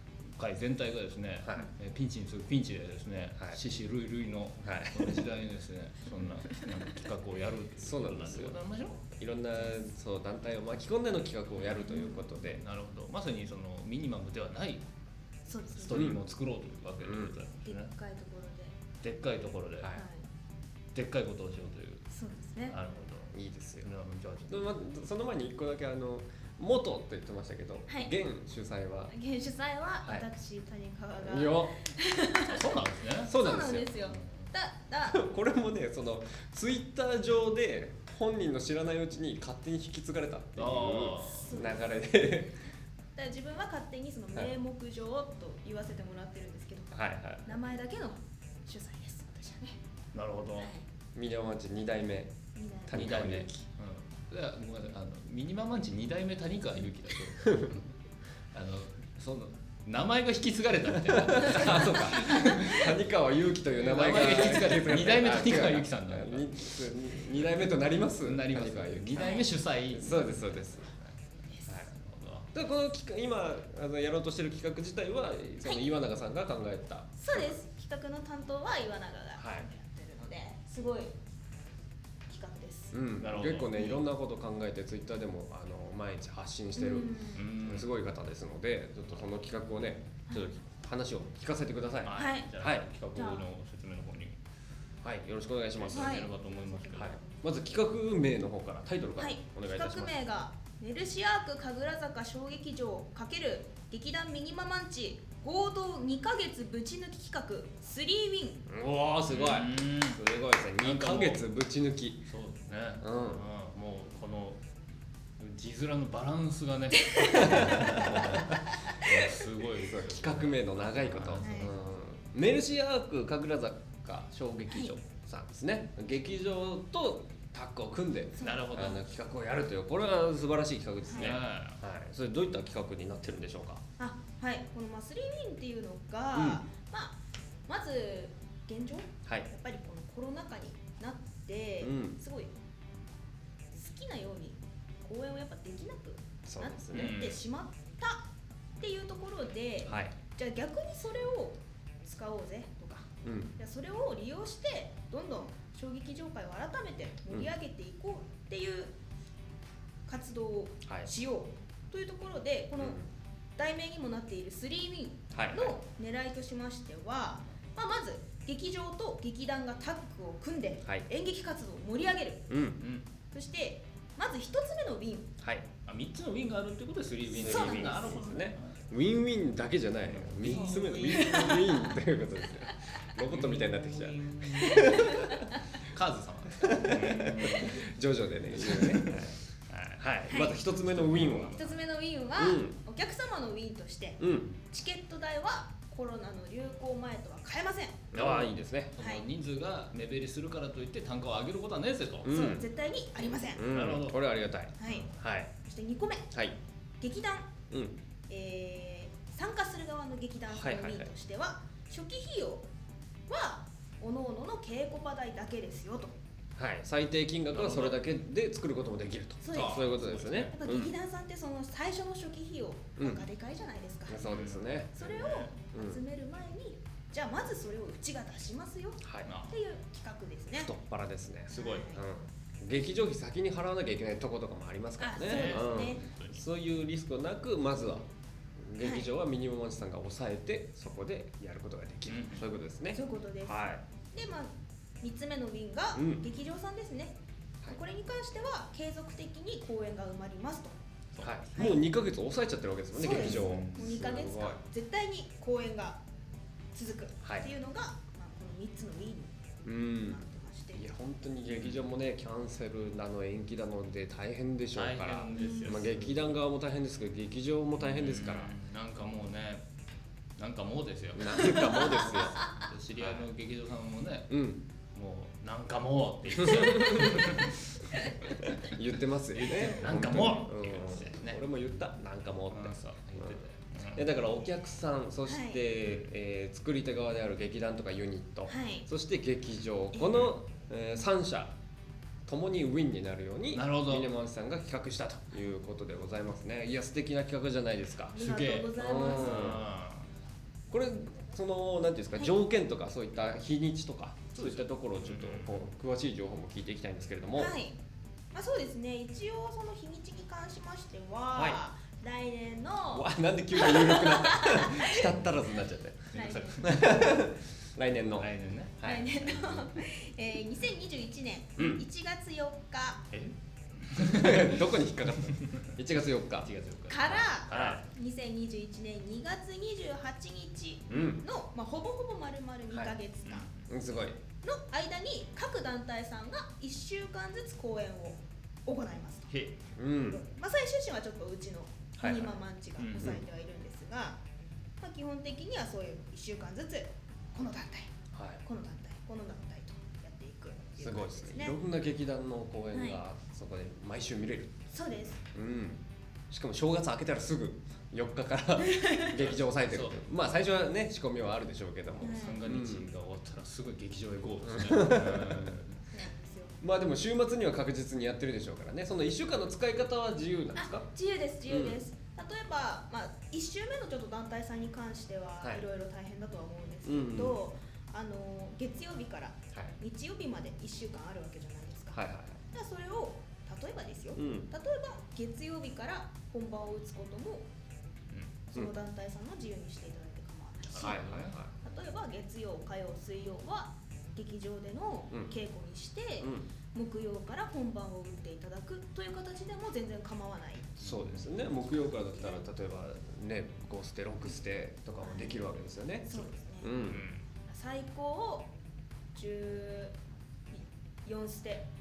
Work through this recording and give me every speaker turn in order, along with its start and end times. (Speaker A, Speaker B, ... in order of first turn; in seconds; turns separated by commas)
Speaker A: 0.3-9.1, Speaker B: 4.6-5.2, Speaker B: 7.8-8.6, Speaker B: 9.1-12.6, Speaker C: 11.8-12.2, Speaker A: 12.5-14.8, Speaker C: 15.4-16.1, Speaker A: 15.7-17.9, Speaker B: 15.9-16.2, Speaker B: 17.0-17.3, Speaker C: 17.6-18.8, Speaker A: 19.0-19.9, Speaker C: 19.9-20.2, Speaker A: 20.9-22.0, Speaker C: 22.1-22.8, Speaker A: 22.7-24.7, Speaker B: 23.3-23.9, Speaker B: 24.5-29.1, Speaker C: 29.1-32.8, Speaker B: 31.1-31.8, Speaker A: 32.5-33.3, Speaker B: 33.2-33.9, Speaker C: 33.3-35.2, Speaker A: 34.0-34.5, Speaker B: 35.0-42.6, Speaker A: 40.6-41.5, Speaker C: 41.2-41.9, Speaker C: 43.1-49.8, Speaker B: 46.9-47.5, Speaker A: 50.1-50.7, Speaker B: 51.1-52.3, Speaker C: 52.5-53.1, Speaker B: 52.9-53.5, Speaker A: 52.9-57.9, Speaker B: 57.4-57.7, Speaker A: 58.5-62.9, Speaker B: 61.1-70.9, Speaker A: 63.7-66.6, Speaker A: 68.2-71.1, Speaker C: 69.2-69.5, Speaker C: 71.5-71.8, Speaker A: 71.9-72.5, Speaker B: 72.5-77.5, Speaker C: 77.2-81.1, Speaker B: 79.4-79.7, Speaker C: 82.3-83.0, Speaker B: 82.9-92.9, Speaker A: 83.2-83.7, Speaker C: 83.7-84.0, Speaker C: 86.8-87.5, Speaker A: 87.3-88.0, Speaker A: 92.0-94.4, Speaker C: 92.1-92.5, Speaker C: 93.1-93.5, Speaker B: 95.0-96.3, Speaker A: 95.8-97.2, Speaker C: 95.9-97.4, Speaker B: 97.0-100.2, Speaker C: 99.2-108.7, Speaker B: 108.7-112.3, Speaker A: 109.3-110.2, Speaker A: 110.8-111.4, Speaker A: 112.3-114.6, Speaker B: 113.0-113.4, Speaker A: 115.4-121.7, Speaker C: 117.1-117.4, Speaker B: 117.3-118.5, Speaker B: 119.0-133.8, Speaker C: 121.4-121.7, Speaker C: 128.4-129.0, Speaker A: 128.4-129.0, Speaker C: 131.1-131.3, Speaker A: 131.2-131.8, Speaker C: 134.0-142.5, Speaker B: 136.3-136.6, Speaker B: 141.8-142.2, Speaker C: 143.7-148.2, Speaker B: 146.4-147.2, Speaker A: 146.9-147.4, Speaker C: 148.8-158.9, Speaker B: 149.8-150.1, Speaker B: 153.2-153.5, Speaker C: 160.1-163.0, Speaker B: 162.8-163.1, Speaker C: 163.6-172.5, Speaker B: 165.3-165.8, Speaker B: 172.5-172.8, Speaker A: 172.8-173.1, Speaker C: 173.3-175.3, Speaker B: 175.4-175.7, Speaker A: 175.8-178.8, Speaker B: 177.3-185.3, Speaker C: 177.3-178.5, Speaker A: 180.1-181.9, Speaker C: 181.0-181.9, Speaker A: 183.2-187.9, Speaker C: 184.6-185.4, Speaker B: 186.6-189.3, Speaker A: 188.4-191.8, Speaker B: 190.0-191.5, Speaker C: 190.3-190.6, Speaker C: 191.5-198.1, Speaker B: 192.3-192.8, Speaker B: 194.2-194.5, Speaker B: 198.1-198.9, Speaker A: 198.1-202.3, Speaker C: 199.0-199.2, Speaker B: 202.2-202.6, Speaker C: 202.3-203.6, Speaker B: 203.5-205.5, Speaker A: 203.7-204.2, Speaker C: 204.8-206.4, Speaker A: 204.8-205.2, Speaker C: 207.0-207.6, Speaker B: 207.7-207.9, Speaker C: 208.3-212.7, Speaker B: 210.5-211.1, Speaker C: 213.3-216.1, Speaker B: 216.6-220.9, Speaker A: 217.5-218.0, Speaker C: 219.4-219.8, Speaker A: 219.5-220.6, Speaker C: 220.5-224.3, Speaker B: 224.1-225.1, Speaker A: 224.2-225.5, Speaker C: 224.9-230.7, Speaker B: 225.7-226.0, Speaker B: 229.0-229.3, Speaker A: 229.2-229.5, Speaker B: 230.6-238.1, Speaker C: 231.5-232.0, Speaker C: 235.0-236.0, Speaker A: 235.2-236.4, Speaker B: 238.6-243.8, Speaker C: 238.8-239.1, Speaker A: 242.1-242.5, Speaker C: 242.9-243.6, Speaker C: 244.1-250.8, Speaker B: 245.9-246.2, Speaker A: 251.1-251.4, Speaker B: 251.2-254.6, Speaker C: 251.5-251.9, Speaker C: 252.9-256.0, Speaker A: 253.1-253.8, Speaker C: 256.7-259.3, Speaker B: 257.2-257.5, Speaker B: 259.6-260.2, Speaker C: 259.9-260.8, Speaker B: 260.7-268.5, Speaker A: 261.5-261.8, Speaker A: 264.7-266.4, Speaker C: 265.4-265.7, Speaker A: 267.8-269.6, Speaker A: 270.4-274.4, Speaker B: 271.1-272.4, Speaker B: 273.0-273.2, Speaker B: 274.3-274.6, Speaker A: 274.9-277.7, Speaker B: 276.4-277.2, Speaker B: 278.6-291.5, Speaker A: 279.3-281.4, Speaker A: 282.5-284.1, Speaker C: 285.3-285.6, Speaker C: 288.5-288.9, Speaker B: 292.2-298.1, Speaker A: 293.5-294.1, Speaker C: 298.1-299.6, Speaker A: 298.1-300.1, Speaker B: 298.8-299.6, Speaker B: 300.7-307.5, Speaker A: 304.3-305.7, Speaker C: 307.3-307.8, Speaker C: 308.3-315.1, Speaker B: 311.3-311.6, Speaker B: 312.9-318.3, Speaker A: 316.1-317.1, Speaker C: 316.1-317.1, Speaker A: 318.1-319.6, Speaker B: 318.8-319.0, Speaker C: 318.8-323.1, Speaker A: 323.1-324.7, Speaker B: 324.0-326.5, Speaker A: 325.2-325.7, Speaker A: 326.4-327.9, Speaker C: 326.9-333.5, Speaker B: 327.5-327.8, Speaker B: 330.9-331.2, Speaker B: 332.7-332.9, Speaker A: 333.2-334.0, Speaker B: 333.7-334.2, Speaker C: 334.4-339.3, Speaker A: 339.3-339.5, Speaker B: 339.8-340.2, Speaker C: 340.1-344.2, Speaker B: 342.0-342.4, Speaker A: 342.8-343.2, Speaker B: 342.9-343.2, Speaker C: 344.8-351.6, Speaker B: 348.1-348.4, Speaker B: 350.8-354.6, Speaker C: 352.7-353.0, Speaker C: 354.7-355.2, Speaker B: 355.3-362.8, Speaker C: 358.6-359.1, Speaker A: 359.6-360.0, Speaker C: 362.0-362.4, Speaker A: 362.0-365.9, Speaker B: 364.4-365.6, Speaker C: 365.9-366.6, Speaker B: 366.6-370.9, Speaker C: 370.6-382.0, Speaker B: 371.4-371.8, Speaker B: 376.8-377.4, Speaker B: 381.9-382.4, Speaker C: 382.5-387.5, Speaker B: 384.1-384.5, Speaker C: 388.5-391.0, Speaker A: 390.6-391.4, Speaker B: 390.8-391.5, Speaker C: 391.6-400.8, Speaker B: 396.2-396.4, Speaker B: 400.8-407.1, Speaker A: 400.8-401.2, Speaker C: 401.9-402.3, Speaker C: 406.1-406.7, Speaker A: 406.8-407.2, Speaker C: 407.5-408.5, Speaker C: 409.1-409.9, Speaker C: 410.5-411.7